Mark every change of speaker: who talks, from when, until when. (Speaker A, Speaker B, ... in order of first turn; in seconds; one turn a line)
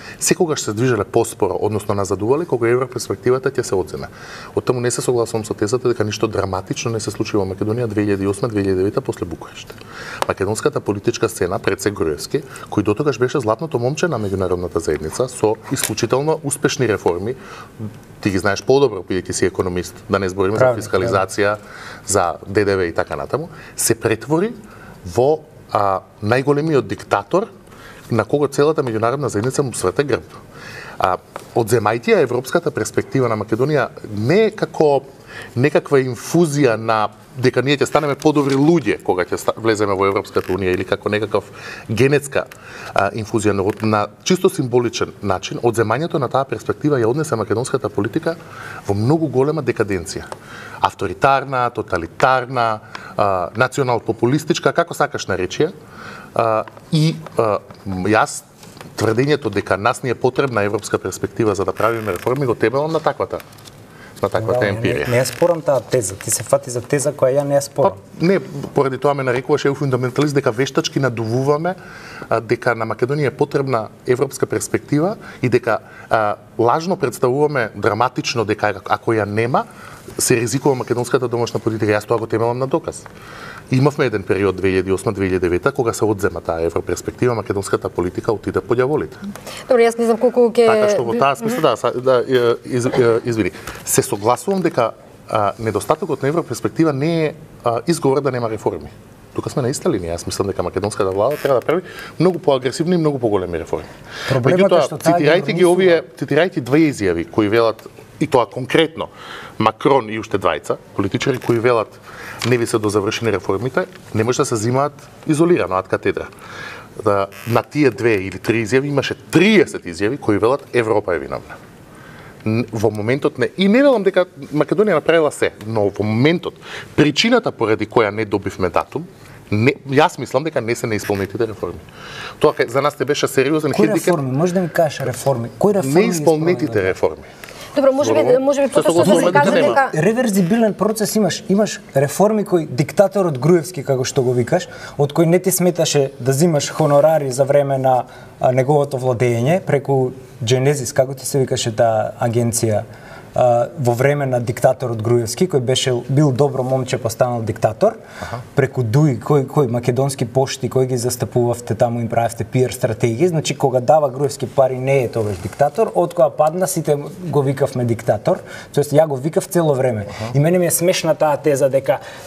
Speaker A: 0.2-27.5
Speaker B: 20.6-21.2
Speaker A: 28.1-30.3
Speaker A: 31.0-50.3
Speaker A: 50.8-55.7
Speaker A: 56.4-58.5
Speaker A: 59.0-63.4
Speaker A: 64.2-65.1
Speaker B: 64.4-68.0
Speaker A: 67.8-71.8
Speaker A: 72.3-79.7
Speaker A: 80.2-83.1
Speaker A: 83.7-89.2
Speaker C: 89.7-91.6
Speaker A: 90.7-103.9
Speaker B: 104.3-106.0
Speaker A: 104.4-116.3
Speaker A: 117.0-121.6
Speaker A: 122.4-131.8
Speaker A: 132.4-134.2
Speaker B: 133.7-136.9
Speaker A: 135.8-137.3
Speaker C: 137.8-139.9
Speaker A: 138.0-139.8
Speaker B: 139.0-158.0
Speaker B: 158.5-172.0